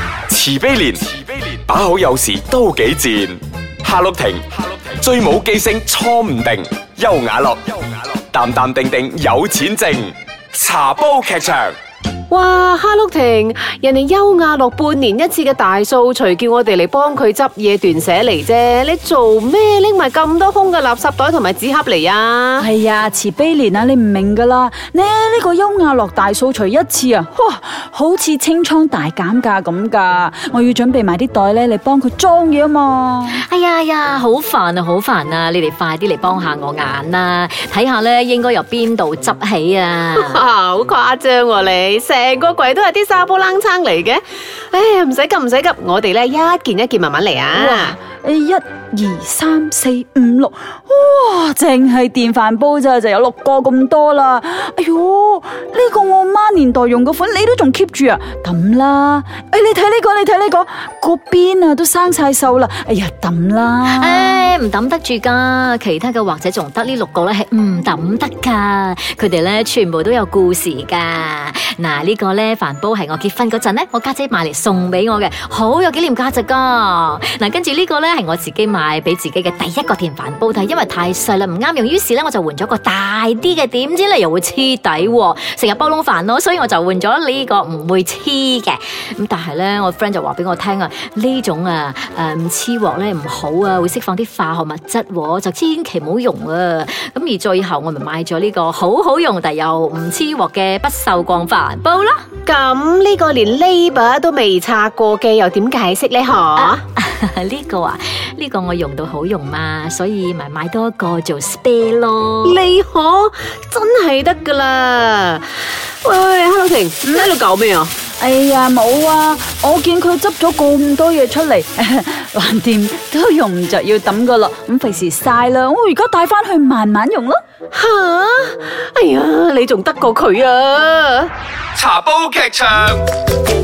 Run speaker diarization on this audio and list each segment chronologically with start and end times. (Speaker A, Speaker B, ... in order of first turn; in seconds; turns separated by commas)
Speaker A: 0.3-11.8, Speaker B: 12.3-22.7, Speaker C: 22.6-33.4, Speaker D: 33.3-40.4, Speaker B: 40.2-48.0, Speaker C: 47.5-64.5, Speaker D: 63.9-102.2, Speaker B: 102.5-106.8, Speaker D: 106.6-112.6, Speaker B: 112.4-117.9, Speaker C: 117.0-117.3, Speaker C: 118.2-127.4, Speaker B: 127.7-131.3, Speaker A: 131.8-133.0